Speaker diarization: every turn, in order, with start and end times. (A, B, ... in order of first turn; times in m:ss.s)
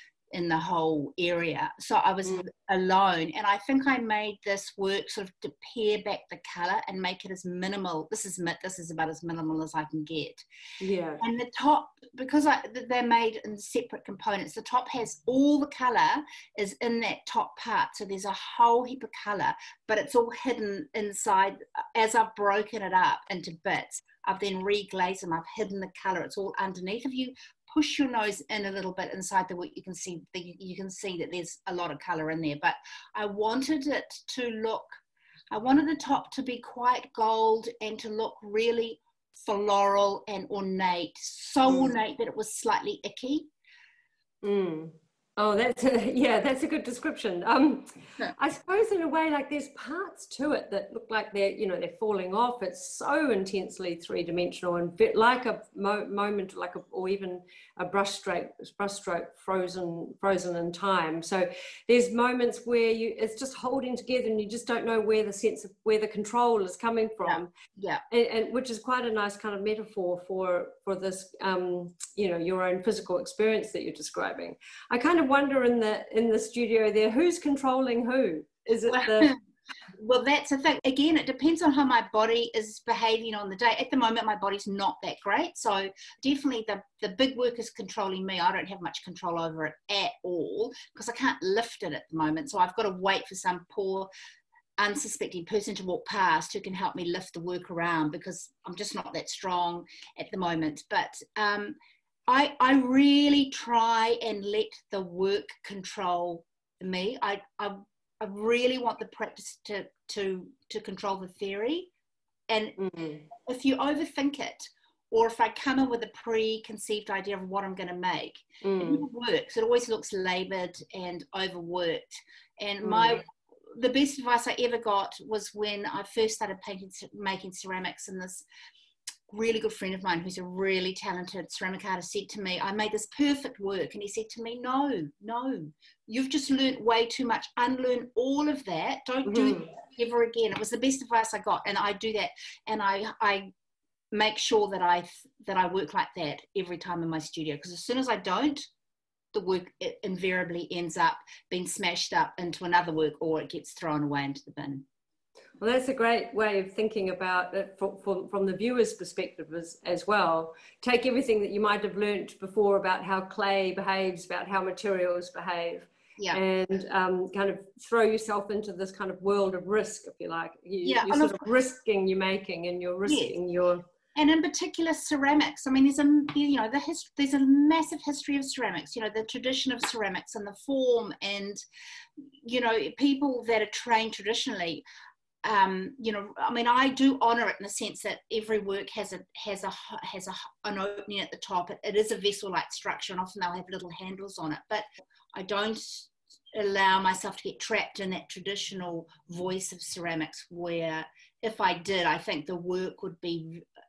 0:00.3-0:10.4 A
0:10.8-0:11.2 B
0:11.2-0:35.0 A
0:35.5-0:43.5 A
0:41.6-0:42.0 B
0:44.4-1:07.5 B
1:07.2-1:08.0 A
1:08.1-1:19.3 B
1:18.8-1:19.4 A
1:20.0-1:34.1 A
1:34.8-1:41.8 A
1:42.3-1:51.9 A
1:52.5-1:52.8 A
1:52.8-1:53.2 B
1:53.4-2:08.4 A
1:58.6-1:59.0 B
2:02.8-2:03.2 B
2:09.3-2:23.5 A
2:19.2-2:19.7 B
2:24.1-2:28.6 A
2:29.3-2:34.8 A
2:35.6-2:53.8 B
2:50.8-2:51.5 A
2:53.0-2:53.4 A
2:54.1-3:01.6 A
3:02.4-3:04.8 A
3:05.4-3:23.6 A